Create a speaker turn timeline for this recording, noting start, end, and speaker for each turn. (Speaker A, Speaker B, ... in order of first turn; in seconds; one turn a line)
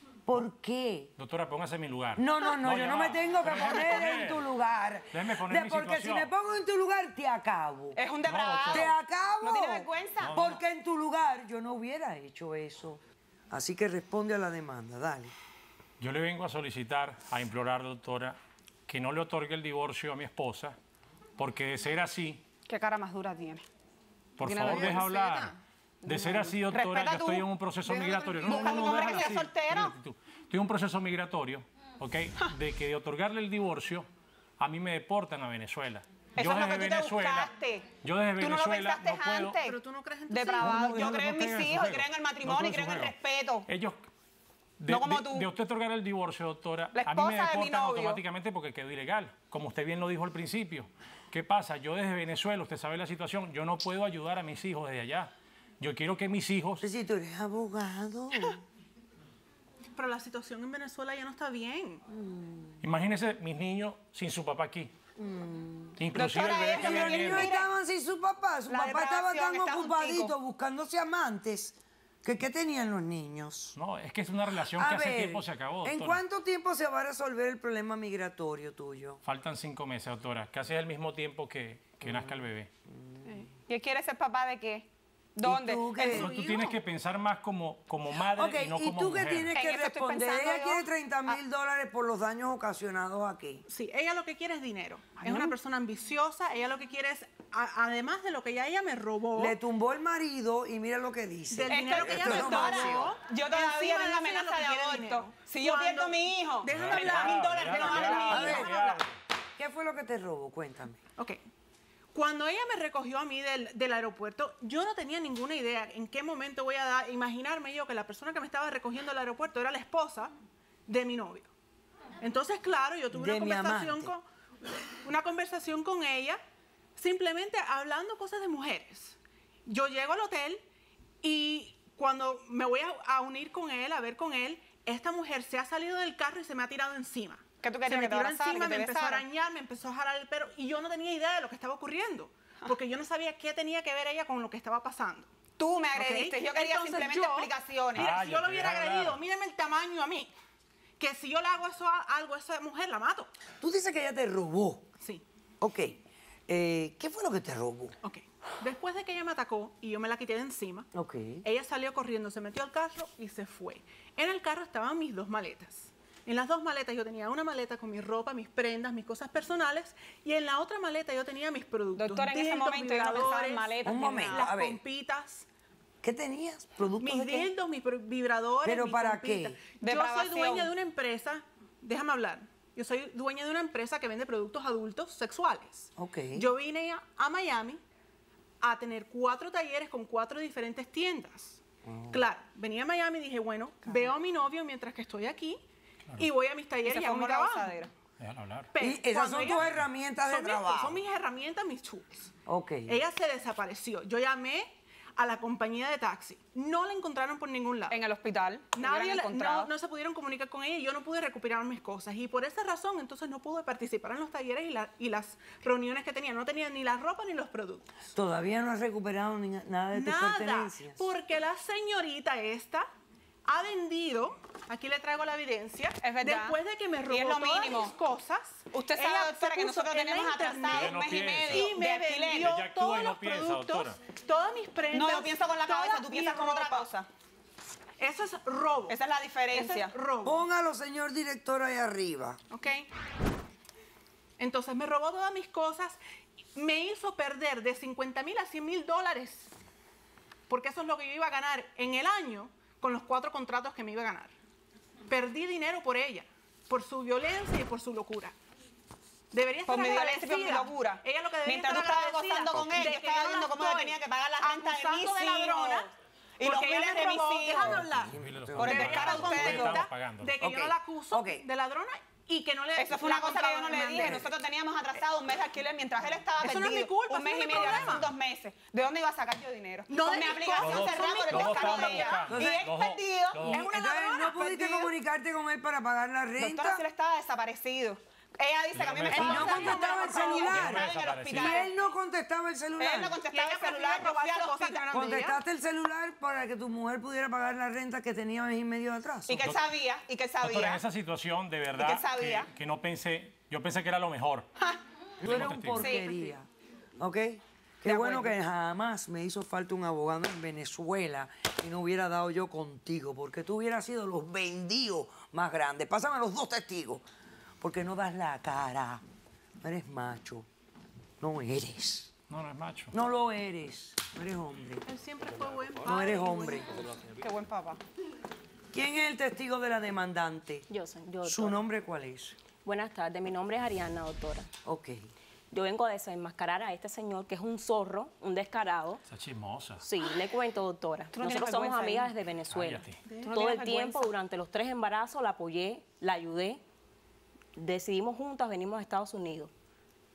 Speaker A: 0.2-1.1
Speaker B: 1.2-4.5
Speaker A: 2.2-8.0
Speaker B: 5.1-6.3
Speaker C: 7.9-10.5
Speaker B: 8.2-8.9
Speaker A: 8.7-15.3
Speaker B: 10.2-10.6
Speaker B: 16.0-20.8
Speaker B: 21.4-22.4
Speaker C: 22.6-23.6
Speaker B: 24.4-25.5
Speaker C: 24.4-25.5
Speaker C: 26.0-29.9
Speaker B: 26.0-34.1
Speaker D: 28.9-29.2
Speaker B: 34.6-37.5
Speaker C: 36.4-37.9
Speaker B: 38.0-39.6
Speaker C: 38.4-43.7
Speaker D: 39.6-41.1
Speaker B: 40.6-43.1
Speaker B: 43.7-44.0
Speaker B: 44.8-56.8
Speaker C: 44.9-45.5
Speaker C: 46.9-48.2
Speaker A: 56.8-58.6
Speaker D: 59.9-62.0
Speaker A: 62.1-62.8
Speaker B: 62.8-64.9
Speaker A: 65.2-73.7
Speaker B: 66.0-67.5
Speaker C: 66.1-67.7
Speaker C: 68.7-70.3
Speaker B: 73.7-76.2
Speaker A: 74.7-79.2
Speaker B: 79.2-82.7
Speaker A: 82.0-83.5
Speaker C: 83.5-86.3
Speaker A: 85.4-86.8
Speaker B: 86.0-89.5
Speaker A: 88.3-93.6
Speaker C: 89.5-91.4
Speaker D: 93.7-99.6
Speaker C: 95.2-95.5
Speaker A: 99.3-103.1
Speaker D: 101.5-108.9
Speaker C: 101.7-109.0
Speaker B: 106.7-109.1
Speaker A: 108.3-108.8
Speaker A: 109.6-111.0
Speaker D: 112.1-120.3
Speaker D: 120.9-121.5
Speaker D: 122.2-124.2
Speaker A: 123.1-124.1
Speaker D: 125.0-126.4
Speaker D: 127.0-130.6
Speaker D: 131.2-145.3
Speaker C: 137.6-139.2
Speaker C: 145.6-148.1
Speaker D: 145.9-150.3
Speaker B: 147.9-149.2
Speaker D: 151.0-153.3
Speaker A: 153.6-154.9
Speaker A: 155.6-157.9
Speaker D: 158.0-160.9
Speaker A: 160.9-161.4
Speaker D: 161.4-173.8
Speaker C: 171.9-174.5
Speaker A: 173.8-174.8
Speaker D: 174.3-175.5
Speaker A: 176.0-177.5
Speaker D: 177.0-187.8
Speaker A: 178.6-179.6
Speaker C: 179.8-180.7
Speaker A: 186.0-186.5
Speaker D: 188.6-195.6
Speaker A: 191.8-192.2
Speaker D: 196.2-197.8
Speaker C: 196.8-197.9
Speaker B: 198.2-198.7
Speaker D: 198.7-199.6
Speaker A: 198.8-201.0
Speaker D: 200.2-202.3
Speaker A: 202.4-203.0
Speaker D: 202.9-208.0
Speaker C: 207.9-209.7
Speaker D: 208.7-217.9
Speaker A: 218.1-221.1
Speaker D: 219.9-222.9
Speaker D: 223.4-231.0
Speaker C: 226.0-227.9
Speaker C: 228.7-232.5
Speaker B: 230.7-231.8
Speaker D: 231.5-236.9
Speaker B: 232.3-234.0
Speaker C: 234.9-237.1
Speaker D: 238.0-239.0
Speaker C: 238.9-239.9
Speaker D: 239.5-240.4
Speaker A: 240.2-242.4
Speaker D: 242.5-242.9
Speaker D: 244.4-246.0
Speaker D: 246.5-249.5
Speaker D: 250.5-254.3
Speaker D: 255.1-258.3
Speaker D: 259.3-268.1
Speaker C: 259.6-267.8
Speaker A: 267.7-269.8
Speaker B: 268.1-270.4
Speaker C: 268.6-269.8
Speaker D: 268.7-274.3
Speaker A: 270.4-271.4
Speaker C: 272.8-283.8
Speaker D: 276.4-278.1
Speaker D: 279.9-282.3
Speaker B: 280.5-283.7
Speaker A: 282.3-282.6
Speaker A: 283.5-286.8
Speaker D: 283.6-284.9
Speaker C: 286.4-291.7
Speaker B: 288.7-291.6
Speaker A: 289.1-293.2
Speaker D: 289.1-290.5
Speaker C: 292.8-294.9
Speaker D: 293.3-295.4
Speaker A: 294.9-299.4
Speaker C: 299.2-300.8
Speaker B: 299.4-299.6
Speaker B: 300.4-304.5
Speaker C: 301.8-302.5
Speaker B: 305.2-305.9
Speaker A: 305.2-306.5
Speaker C: 305.7-306.3
Speaker A: 307.0-317.0
Speaker C: 307.8-308.4
Speaker A: 317.6-319.0
Speaker A: 319.6-320.5
Speaker A: 321.2-322.1
Speaker B: 322.3-322.9
Speaker A: 322.9-324.8
Speaker D: 324.9-326.6
Speaker A: 325.8-326.8
Speaker C: 327.2-327.8
Speaker A: 328.7-330.7
Speaker E: 330.7-331.6
Speaker A: 331.2-332.4
Speaker E: 332.6-334.4
Speaker A: 334.6-335.0
Speaker E: 335.5-339.0
Speaker B: 339.1-339.8
Speaker E: 339.8-346.6
Speaker C: 341.1-342.1
Speaker B: 342.5-343.0
Speaker D: 343.1-343.6
Speaker C: 343.2-344.1
Speaker E: 347.6-349.5